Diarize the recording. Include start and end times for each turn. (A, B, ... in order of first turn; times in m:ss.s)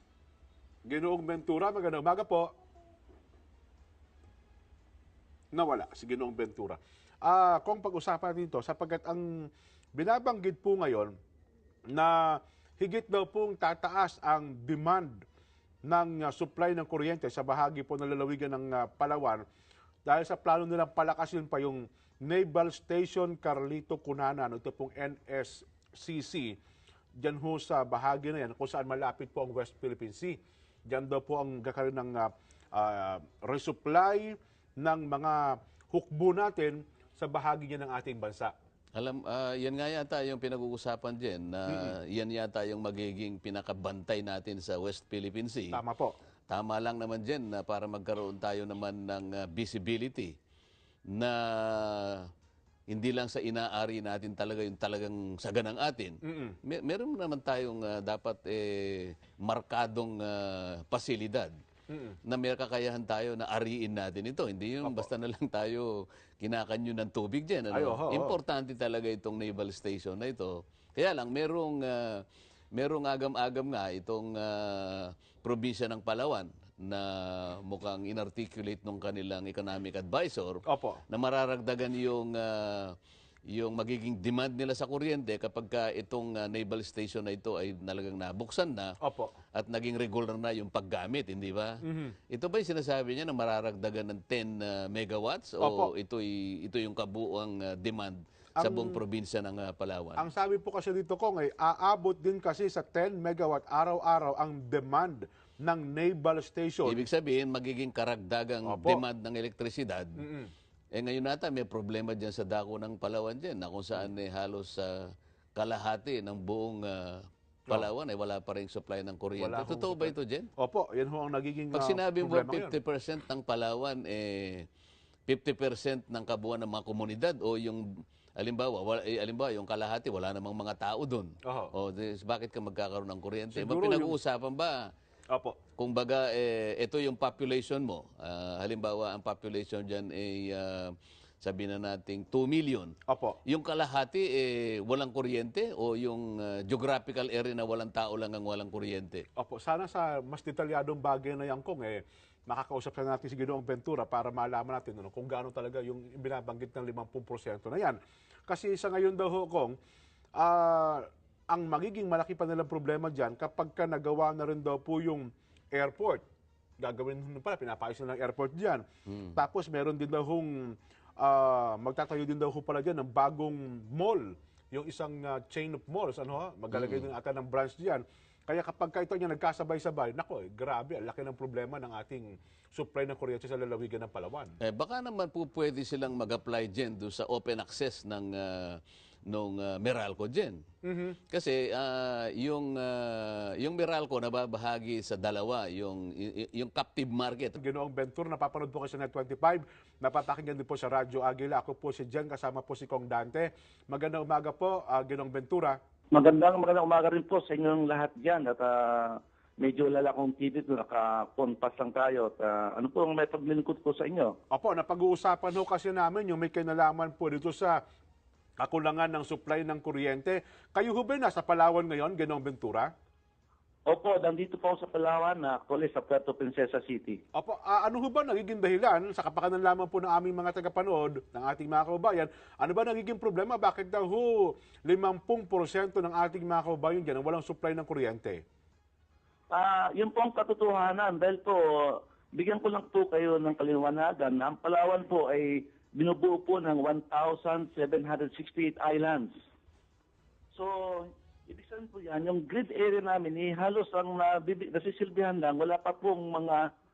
0:00.8-0:02.5 A
0:05.5-0:11.1 A
0:11.9-0:15.2 A
0:15.8-0:19.4 A
0:20.0-0:26.6 A
0:27.2-0:30.4 A
0:30.9-0:38.5 A
0:38.9-0:45.8 B
0:41.7-0:41.9 A
0:45.7-0:46.1 A
0:46.5-0:50.3 B
0:51.1-0:52.3 B
0:52.9-1:01.5 B
0:56.2-0:56.6 A
1:01.9-1:02.2 A
1:02.3-1:05.9 B
1:04.8-1:05.1 A
1:06.4-1:12.2 B
1:07.7-1:08.4 A
1:12.7-1:22.9 B
1:20.7-1:21.0 A
1:23.5-1:28.9 B
1:29.0-1:29.3 A
1:29.5-1:31.8 B
1:31.8-1:32.1 A
1:32.3-1:40.3 B
1:35.6-1:35.9 A
1:38.6-1:39.0 A
1:40.2-1:47.0 A
1:46.8-1:50.2 B
1:48.6-1:49.0 A
1:50.2-1:50.5 A
1:50.9-2:00.5 B
1:59.4-2:02.8 A
2:01.7-2:04.6 B
2:05.3-2:07.8 B
2:08.4-2:14.8 B
2:11.4-2:11.7 A
2:13.5-2:14.2 A
2:15.3-2:15.6 A
2:15.8-2:22.9 B
2:23.1-2:23.4 A
2:23.4-2:29.2 B
2:29.4-2:39.7 A
2:40.4-2:46.2 A
2:46.8-3:04.5 A
2:56.7-2:57.1 B
3:04.6-3:10.6 B
3:10.8-3:11.2 A
3:11.3-3:17.6 B
3:17.6-3:25.8 A
3:26.1-3:34.4 C
3:34.5-3:37.8 A
3:38.6-3:42.9 A
3:43.8-3:47.2 C
3:47.3-3:58.4 A
3:59.5-4:09.3 C
4:10.5-4:16.6 C